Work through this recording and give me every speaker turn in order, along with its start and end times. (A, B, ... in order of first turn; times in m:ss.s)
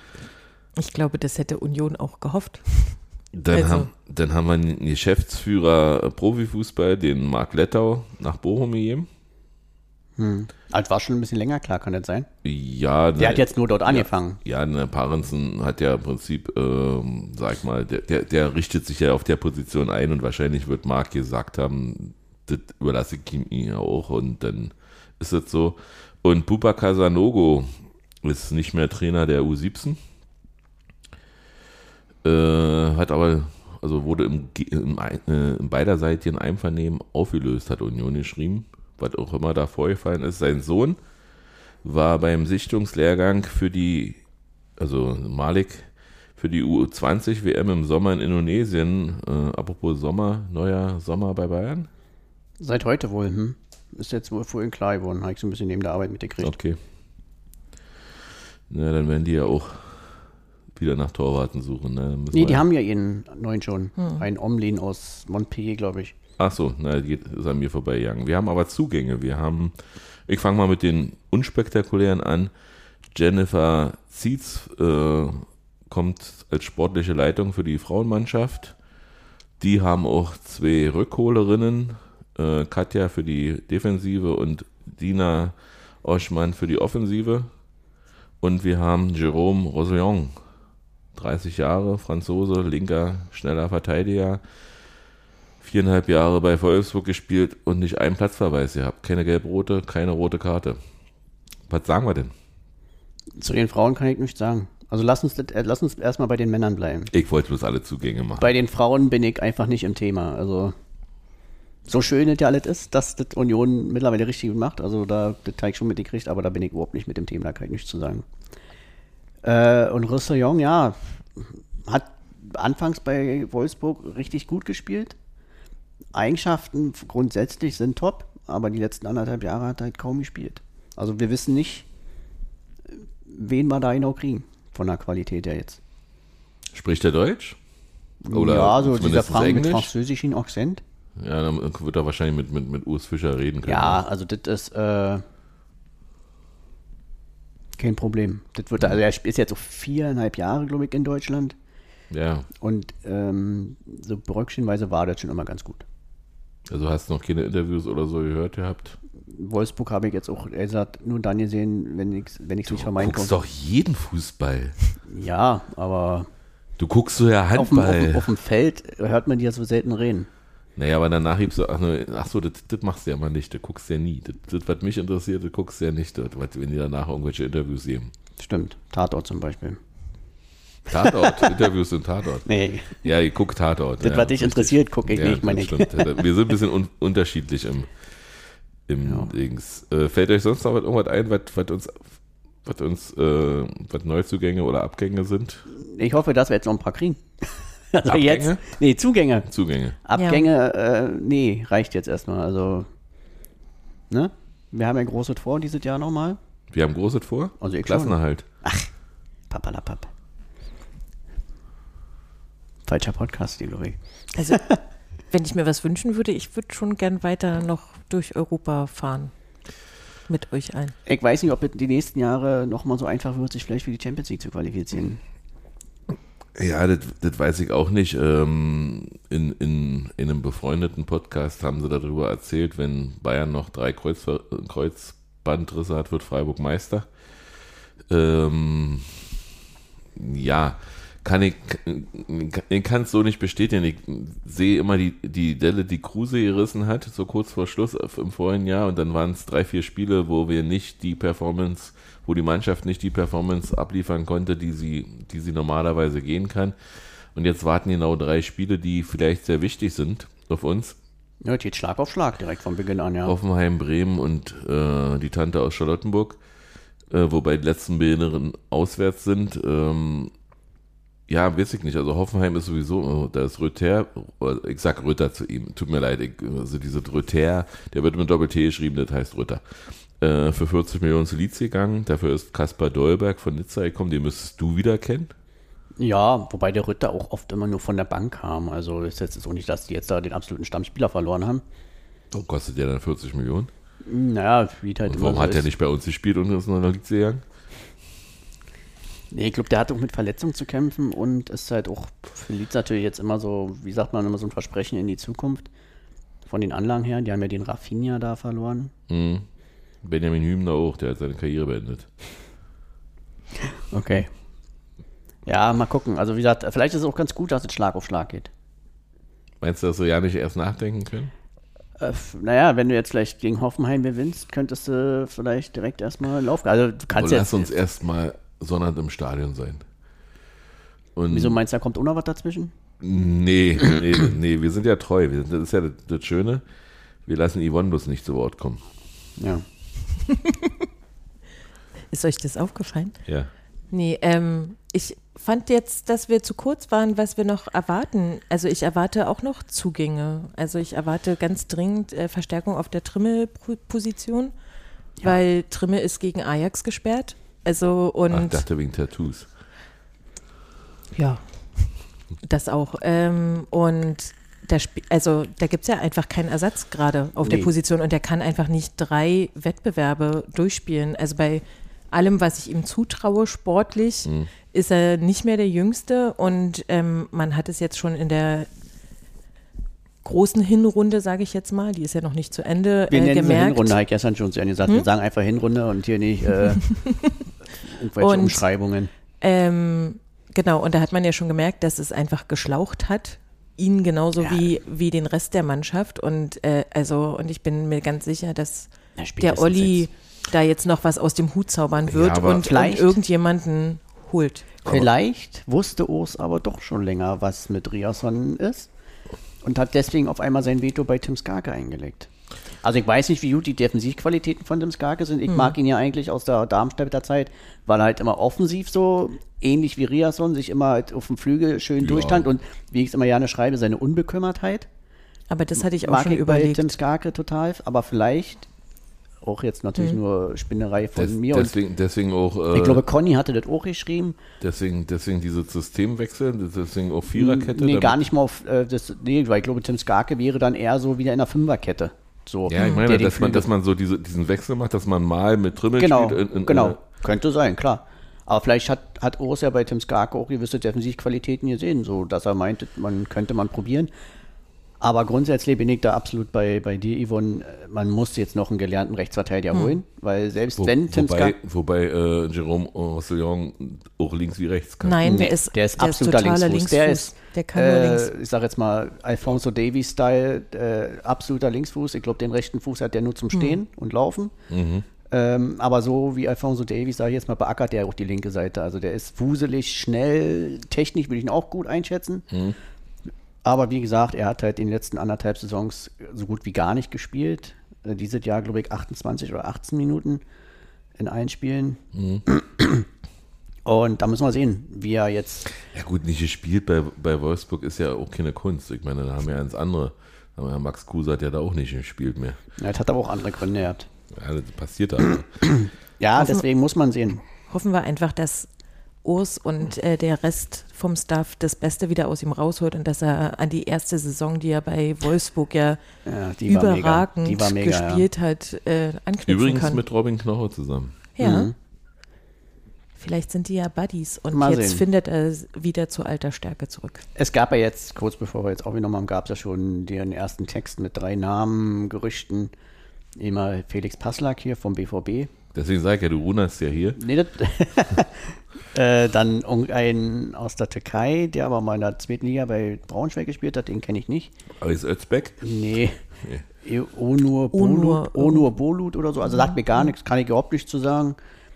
0:00.8-0:03.9 A
0:03.3-0:09.1 B
0:10.2-0:12.3 C
0:12.4-0:30.0 B
0:13.2-0:14.4 C
0:32.2-0:41.0 B
0:41.8-0:44.2 B
0:44.8-0:51.9 B
0:52.6-0:56.5 C
0:56.4-0:56.8 B
0:58.7-1:02.6 B
1:02.3-1:06.1 C
1:04.0-1:04.2 A
1:06.4-1:12.5 B
1:13.1-1:18.8 B
1:19.6-1:27.5 B
1:28.4-1:30.4 B
1:31.1-1:34.4 B
1:35.6-1:40.8 B
1:41.7-1:42.3 B
1:43.4-1:47.1 C
1:47.1-1:48.5 B
1:48.4-1:50.7 C
1:51.9-1:58.2 C
1:59.4-2:05.1 C
2:06.1-2:11.8 C
2:13.3-2:15.8 C
2:16.7-2:17.6 B
2:18.2-2:20.8 C
2:18.3-2:19.9 B
2:21.2-2:24.0 B
2:23.6-2:25.2 C
2:27.8-2:31.5 C
2:32.1-2:32.5 B
2:32.6-2:35.8 C
2:36.7-2:39.0 B
2:39.3-2:43.3 C
2:42.7-2:44.8 B
2:45.1-2:46.3 C
2:46.8-2:48.2 B
2:47.6-2:50.3 C
2:50.8-2:58.1 B
2:58.4-2:59.8 C
3:00.9-3:02.5 B
3:01.0-3:01.6 C
3:02.4-3:03.1 C
3:03.0-3:08.4 B
3:04.0-3:06.3 C
3:08.9-3:12.1 B
3:09.0-3:09.3 C
3:12.6-3:15.6 B
3:15.7-3:19.5 C
3:18.0-3:18.6 B
3:19.5-3:20.0 B
3:20.0-3:22.9 C
3:20.1-3:20.5 A
3:24.1-3:26.4 C
3:26.7-3:28.4 B
3:27.6-3:28.9 C
3:29.5-3:30.1 C
3:32.8-3:34.0 C
3:34.5-3:34.8 C
3:35.3-3:39.3 A
3:40.3-3:40.9 A
3:41.0-3:45.2 C
3:46.5-3:57.1 B
3:58.1-3:59.3 B
4:00.1-4:21.0 B
4:21.4-4:23.3 C
4:23.2-4:26.4 B
4:27.1-4:30.3 B
4:31.3-4:45.3 B
4:46.0-4:51.6 C
4:52.3-4:53.7 B
4:54.0-4:55.6 C
4:55.1-4:57.4 B
4:59.3-5:05.7 C
5:06.5-5:08.9 C
5:09.1-5:09.4 B
5:10.0-5:12.1 B
5:13.6-5:14.3 C
5:15.4-5:18.5 C
5:19.6-5:21.3 B
5:22.0-5:27.7 C
5:27.1-5:29.8 B
5:31.2-5:31.6 B
5:31.3-5:32.7 C
5:33.0-5:36.6 B
5:37.2-5:38.8 B
5:39.4-5:39.6 C
5:40.3-5:40.7 A
5:42.1-5:43.1 A
5:43.2-5:43.5 B
5:43.9-5:54.5 A
5:55.2-5:58.6 A
5:58.3-5:59.5 B
6:01.1-6:18.7 A
6:07.4-6:07.7 C
6:14.2-6:14.5 B
6:20.2-6:24.0 A
6:23.1-6:27.1 C
6:26.9-6:27.4 A
6:27.8-6:29.1 C
6:28.2-6:28.6 A
6:29.4-6:44.7 A
6:34.4-6:34.7 C
6:39.2-6:40.1 C
6:42.1-6:42.7 B
6:42.6-6:43.2 C
6:44.8-6:48.9 C
6:49.6-6:52.3 C
6:52.8-7:04.9 C
6:55.5-6:55.8 A
7:02.0-7:02.5 B
7:05.5-7:07.0 A
7:05.8-7:08.7 C
7:09.4-7:11.8 C
7:11.2-7:13.0 B
7:12.7-7:14.4 C
7:14.6-7:18.2 B
7:17.3-7:23.7 C
7:22.7-7:27.0 B
7:22.8-7:23.0 A
7:26.0-7:34.1 C
7:35.0-7:41.5 C
7:39.7-7:40.0 A
7:40.8-7:45.2 B
7:45.0-7:48.3 A
7:45.2-7:54.5 C
7:54.7-7:55.1 B
7:55.3-8:02.4 C
8:02.5-8:02.8 B
8:03.6-8:10.4 C
8:11.2-8:13.1 C
8:12.1-8:12.4 B
8:13.8-8:15.7 C
8:15.8-8:22.6 B
8:22.8-8:24.1 C
8:24.3-8:25.6 B
8:25.6-8:27.4 C
8:26.4-8:26.6 A
8:27.7-8:28.7 A
8:29.2-8:36.0 A
8:36.2-8:38.2 C
8:36.7-8:40.0 A
8:39.5-8:41.2 B
8:41.4-8:41.7 A
8:41.4-8:41.7 C
8:43.2-8:47.2 A
8:44.5-8:45.0 C
8:47.4-8:52.7 C
8:53.4-8:55.5 C
8:55.7-8:57.2 B
8:57.2-9:04.5 C
9:04.8-9:05.6 B
9:05.6-9:06.2 C
9:06.4-9:06.6 B
9:06.8-9:11.4 C
9:07.7-9:08.7 A
9:09.5-9:10.1 A